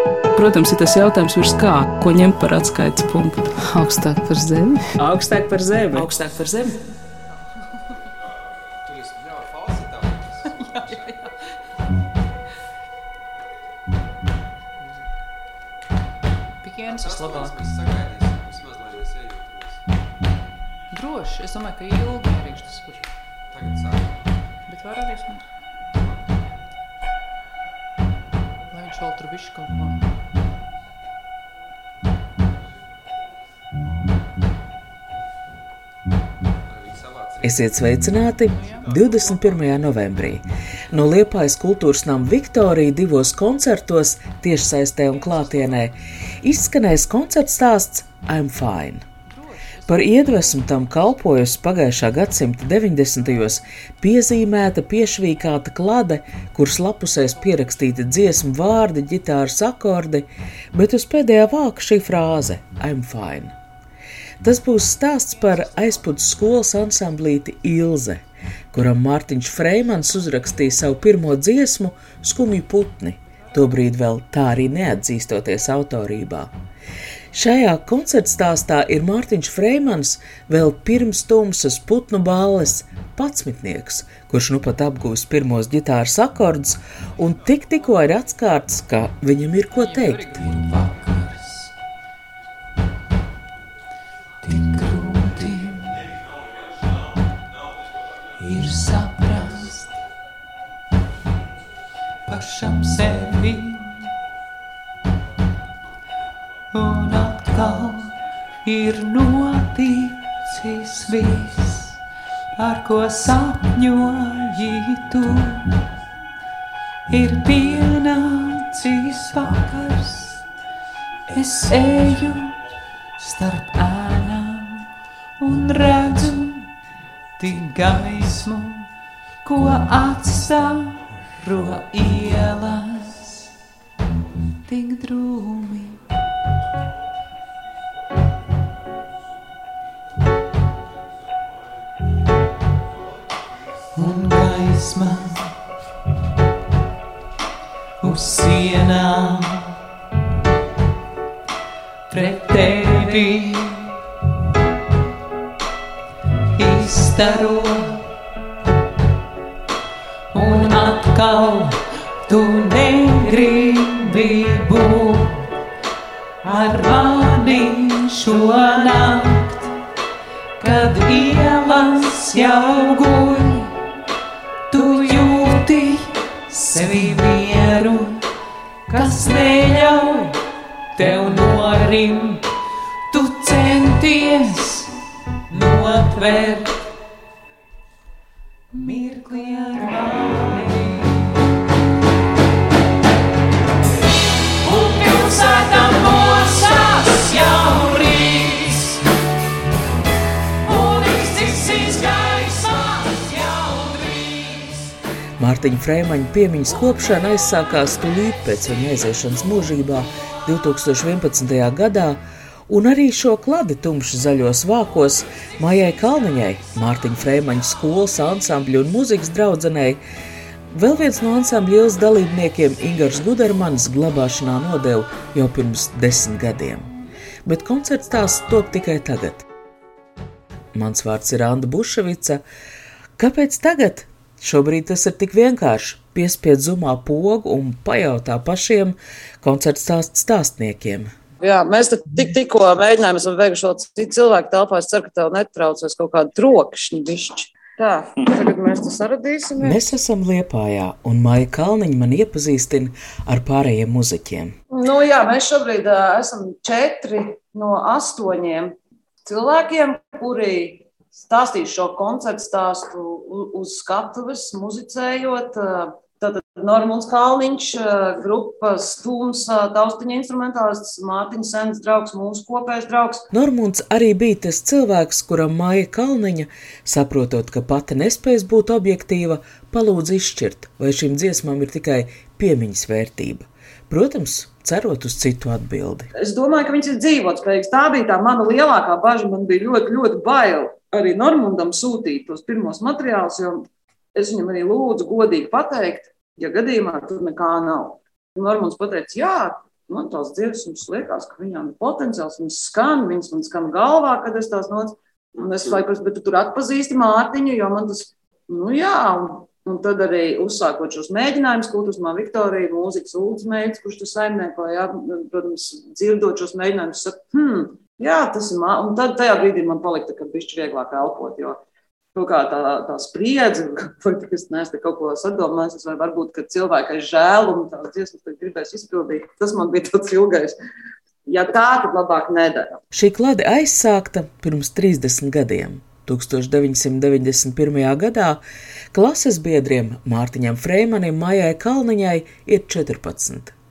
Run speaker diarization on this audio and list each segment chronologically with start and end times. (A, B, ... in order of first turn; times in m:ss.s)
0:00.4-0:06.7 A
0:08.8-0:11.2 B
0:10.6-0:11.3 C
0:16.6-0:17.6 C
0:16.8-0:19.8 B
0:20.9-0:23.1 C
0:23.5-0:24.2 B
0:24.6-0:25.5 C
0:28.7-0:30.0 C
0:36.7-0:37.8 B
0:37.4-0:49.0 D
0:38.5-0:39.0 C
0:38.7-0:39.7 B
0:45.3-0:45.6 C
0:49.3-0:50.9 C
0:49.8-1:03.6 D
1:04.4-1:16.5 D
1:17.3-1:30.5 D
1:30.4-1:31.7 E
1:34.4-1:35.9 E
1:38.4-1:39.9 E
1:42.2-1:44.0 E
1:46.7-1:48.1 E
1:48.6-1:52.0 E
1:52.6-1:55.7 E
1:57.1-2:00.4 E
2:01.3-2:02.6 E
2:03.2-2:04.9 E
2:05.4-2:06.7 E
2:07.4-2:08.9 E
2:09.4-2:13.4 E
2:14.7-2:16.0 E
2:23.9-2:25.5 E
2:28.0-2:29.7 E
2:32.1-2:33.9 E
2:36.6-2:38.0 E
2:40.3-2:45.5 E
2:46.4-2:49.8 E
2:50.6-2:53.8 E
2:54.7-2:58.2 E
2:58.9-3:00.4 E
3:00.9-3:02.4 E
3:03.1-3:04.9 E
3:05.5-3:06.8 E
3:08.7-3:11.2 E
3:14.6-3:19.0 E
3:20.6-3:24.9 E
3:25.4-3:40.0 D
3:40.7-3:46.9 D
3:47.4-3:49.4 D
3:50.7-3:52.4 D
3:53.2-4:01.1 D
4:01.4-4:09.8 F
4:09.6-4:14.6 D
4:14.7-4:33.2 F
4:33.3-4:46.1 D
4:46.1-5:21.6 F
5:22.1-5:30.6 F
5:31.2-5:32.8 F
5:32.9-5:43.5 D